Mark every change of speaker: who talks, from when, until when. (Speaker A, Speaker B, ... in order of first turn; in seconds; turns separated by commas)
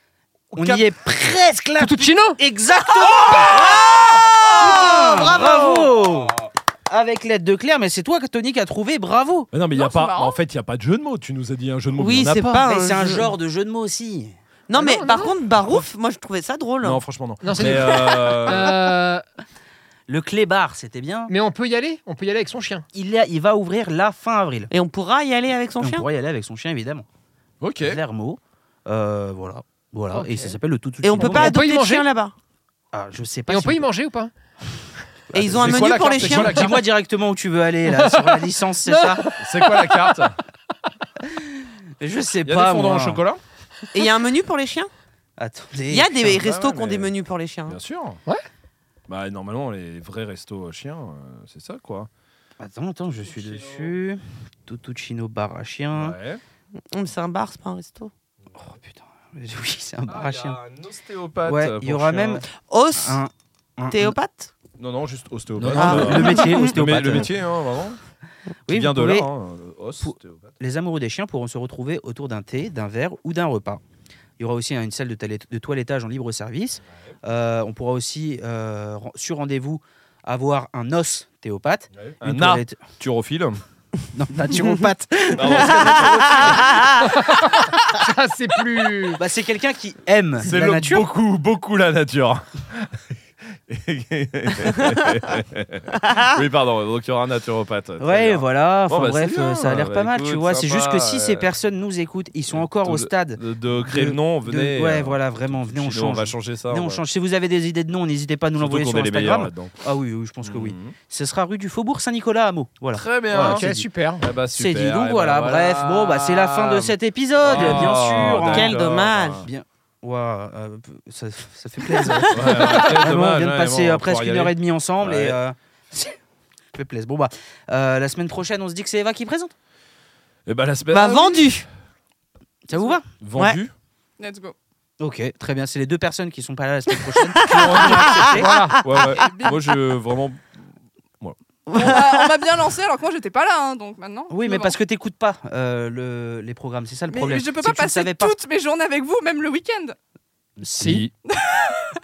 Speaker A: 0.5-9.5, Speaker B: 0.5-0.9, Speaker C: 1.8-2.4, Speaker D: 3.2-5.9, Speaker B: 9.5-12.6, Speaker E: 9.7-10.4, Speaker D: 12.0-13.3, Speaker A: 12.6-14.3, Speaker D: 14.7-17.0, Speaker C: 14.7-15.3, Speaker B: 16.8-18.8, Speaker C: 17.4-19.2, Speaker A: 20.1-21.3, Speaker C: 21.3-22.8, Speaker A: 22.9-24.7, Speaker D: 24.7-26.0, Speaker A: 25.8-27.0, Speaker B: 27.6-28.0, Speaker A: 27.8-31.6, Speaker C: 30.1-30.6, Speaker D: 31.0-32.3, Speaker C: 31.2-32.1, Speaker A: 32.9-33.8, Speaker C: 33.5-34.3, Speaker A: 35.3-39.3, Speaker D: 35.3-36.7, Speaker B: 35.5-36.8, Speaker C: 38.0-40.0, Speaker B: 39.4-40.4, Speaker A: 41.2-43.2, Speaker B: 42.5-43.4, Speaker D: 43.9-44.9, Speaker A: 45.4-46.4, Speaker D: 45.9-47.8, Speaker B: 46.2-47.1, Speaker B: 47.7-48.2, Speaker B: 49.1-52.1, Speaker A: 52.6-56.1, Speaker B: 53.3-53.9, Speaker B: 55.9-56.4, Speaker D: 56.9-58.1, Speaker A: 58.5-60.6, Speaker B: 60.1-62.4, Speaker A: 61.4-64.2, Speaker D: 62.5-63.2, Speaker D: 63.9-64.5, Speaker B: 64.8-68.0, Speaker A: 65.5-67.3, Speaker D: 65.7-66.6, Speaker A: 68.7-69.3, Speaker B: 68.7-70.5, Speaker A: 70.0-73.8, Speaker A: 74.4-82.8, Speaker B: 82.0-83.6, Speaker A: 84.1-86.5, Speaker B: 85.3-86.9, Speaker D: 86.1-86.9, Speaker C: 87.0-89.2, Speaker A: 89.2-91.1, Speaker B: 90.4-93.0, Speaker B: 93.7-101.5, Speaker A: 98.0-113.8, Speaker B: 102.5-107.0, Speaker B: 108.6-109.7, Speaker B: 110.4-110.9, Speaker B: 112.9-113.7, Speaker C: 113.3-114.3, Speaker B: 114.2-119.5, Speaker A: 114.5-118.8, Speaker D: 117.6-119.4, Speaker A: 119.4-126.2, Speaker D: 122.0-122.6, Speaker B: 122.2-125.4, Speaker A: 126.7-129.5, Speaker B: 130.4-131.4, Speaker D: 130.9-131.7, Speaker A: 132.7-133.0, Speaker B: 133.2-133.7, Speaker E: 134.2-134.5, Speaker A: 135.0-138.5, Speaker B: 137.4-140.5, Speaker D: 137.4-138.4, Speaker C: 138.3-138.8, Speaker E: 138.9-139.6, Speaker B: 141.2-141.9, Speaker D: 141.7-142.2, Speaker E: 141.7-144.8, Speaker A: 144.3-148.3, Speaker E: 147.1-150.0, Speaker C: 150.6-151.0, Speaker B: 150.8-151.1, Speaker E: 151.3-151.9